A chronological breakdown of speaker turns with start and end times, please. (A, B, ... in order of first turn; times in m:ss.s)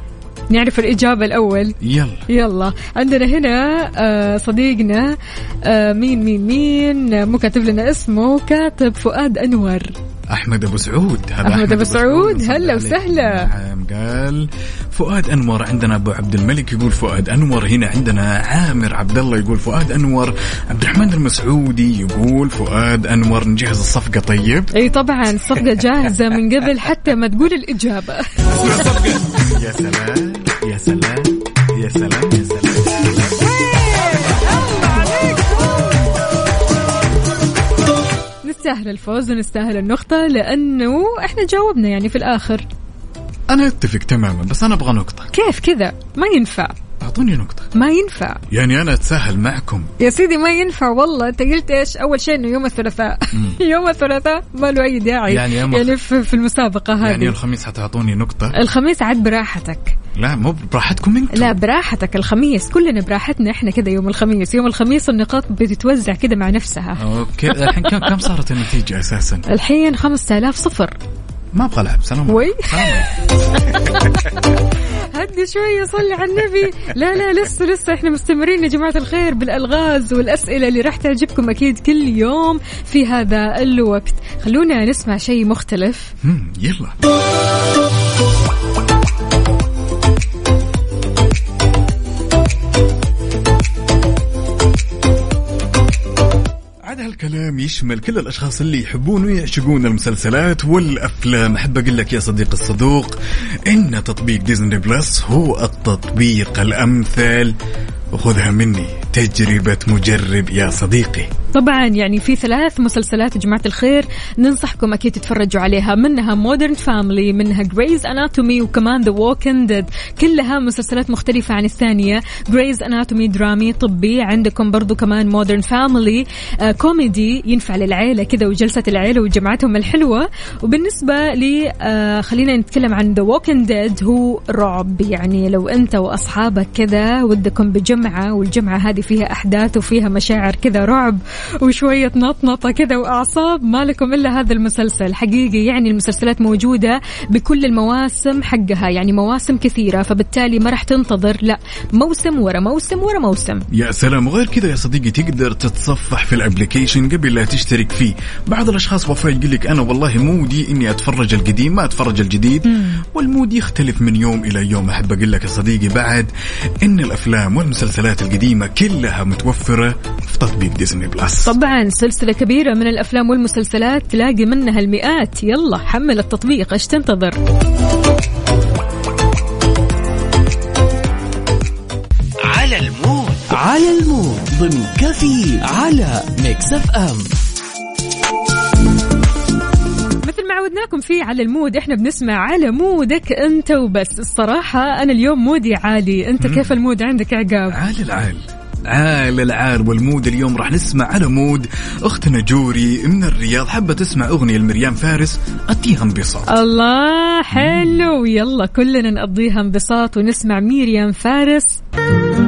0:00.5-0:01.8 A
0:01.8-0:02.2 B
0:02.3-0:09.9 A
0:10.3-0:24.7 B
0:11.4-0:13.5 A
0:24.7-0:28.9 A
0:28.6-0:33.4 B
0:34.5-0:35.4 A
0:38.4-0:42.7 A
0:43.5-0:45.3 B
0:45.3-0:46.8 A
0:47.0-0:47.7 B
0:47.7-0:48.4 A
0:48.5-0:49.9 B
0:50.0-0:57.4 A
0:53.3-0:53.6 B
0:55.3-0:56.0 B
0:57.0-0:58.6 B
0:58.5-1:00.0 A
1:00.2-1:01.6 B
1:01.3-1:07.0 A
1:07.0-1:09.4 B
1:09.5-1:11.0 A
1:11.5-1:13.1 B
1:12.3-1:13.0 A
1:13.8-1:14.1 B
1:15.1-1:26.1 A
1:26.2-1:27.0 B
1:36.8-1:47.6 B
1:48.1-1:51.3 B
1:51.5-2:33.6 A
2:33.7-2:46.3 B
2:42.7-2:43.0 A
2:46.8-2:51.6 B
2:51.4-2:57.4 A
3:02.5-3:07.3 C
3:10.2-3:17.8 A
3:16.4-3:16.7 B
3:17.7-3:26.6 B
3:26.5-3:31.8 A
3:27.5-3:28.0 B